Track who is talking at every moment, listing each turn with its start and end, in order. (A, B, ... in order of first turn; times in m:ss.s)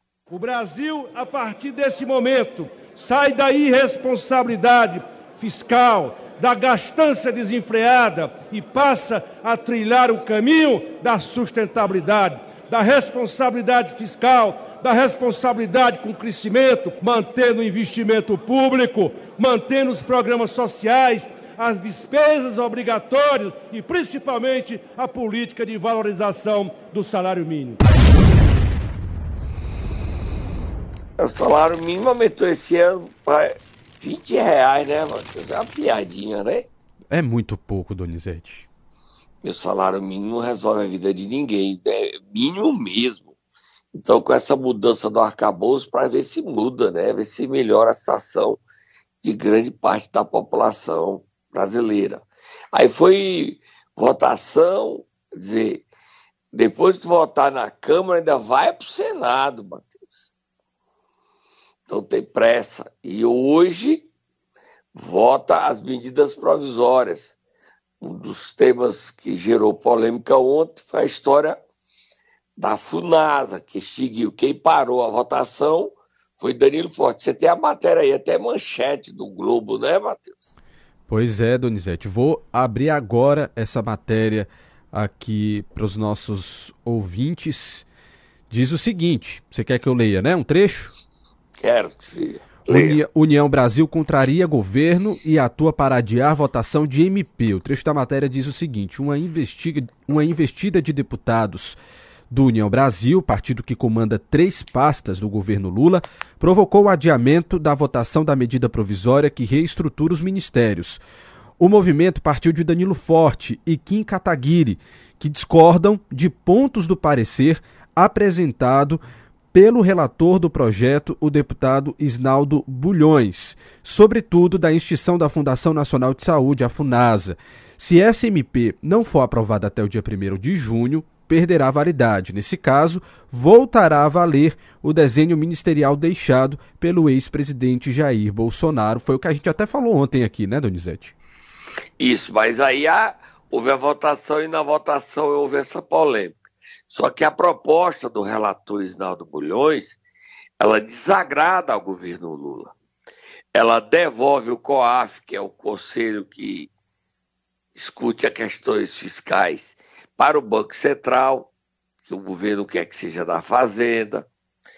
0:00.3-0:27.8 A
0:31.2-0:36.7 B
0:37.1-0:38.7 C
0:39.4-0:43.3 B
0:43.9-0:48.6 B
0:49.2-0:55.8 B
0:56.5-1:00.3 B
1:01.9-1:04.1 B
1:04.9-1:07.3 B
1:08.0-1:11.6 B
1:12.6-1:20.5 B
1:21.1-1:27.9 C
1:28.5-1:30.9 C
1:31.6-1:33.0 B
1:32.7-1:41.8 C
1:42.3-1:51.0 C
1:51.6-1:59.0 C
1:59.5-2:21.1 C
2:22.0-2:26.4 B
2:26.9-2:30.0 B
2:30.6-2:32.7 B
2:33.5-2:36.7 B
2:37.8-2:41.5 B
2:42.1-2:44.3 B